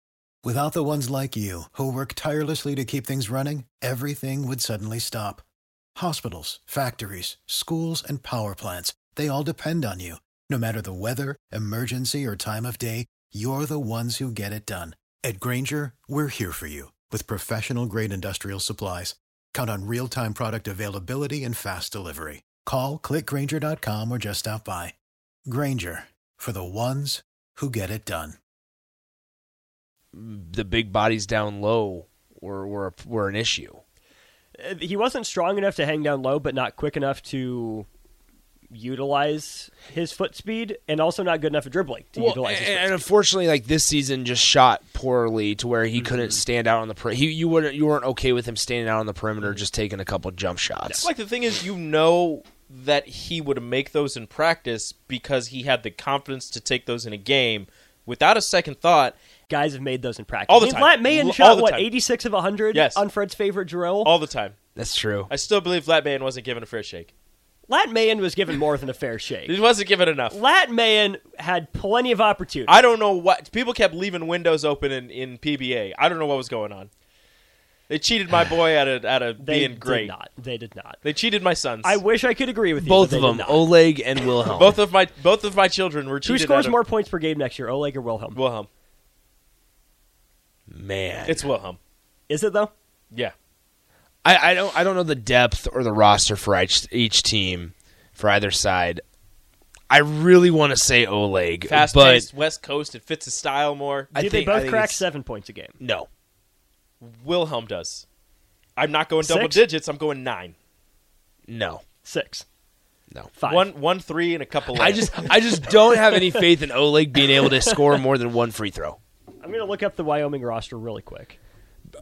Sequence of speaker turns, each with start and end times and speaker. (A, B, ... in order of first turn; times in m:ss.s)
0:00.4-0:05.4 A
0:06.0-0:24.9 A
0:25.4-0:28.4 A
0:30.1-0:33.8 B
0:34.6-0:37.9 C
0:38.7-0:43.0 C
0:42.2-0:51.1 B
0:46.1-0:46.3 C
0:51.0-0:59.2 D
0:59.5-1:04.1 C
1:00.5-1:01.9 D
1:02.7-1:03.0 D
1:04.0-1:04.5 D
1:04.8-1:05.3 B
1:05.3-1:07.1 D
1:07.7-1:09.6 C
1:09.4-1:10.4 D
1:10.3-1:12.7 C
1:12.7-1:16.9 D
1:17.9-1:20.1 D
1:19.4-1:21.0 C
1:21.0-1:22.0 D
1:21.8-1:23.7 C
1:22.8-1:24.8 B
1:24.5-1:26.8 D
1:26.2-1:28.4 C
1:28.3-1:28.7 D
1:30.7-1:31.4 B
1:31.2-1:31.8 D
1:32.3-1:32.7 C
1:34.2-1:39.0 B
1:39.9-1:42.3 B
1:41.7-1:44.1 D
1:44.1-1:45.8 C
1:44.1-1:45.0 B
1:45.8-1:46.1 B
1:47.0-1:48.0 D
1:48.8-1:50.5 D
1:49.2-1:49.6 C
1:51.5-1:51.8 B
1:52.0-1:52.4 C
1:53.3-1:53.7 C
1:53.5-1:55.4 D
1:54.7-1:59.0 B
1:55.8-1:56.4 C
1:57.4-1:58.0 C
1:59.4-2:01.4 C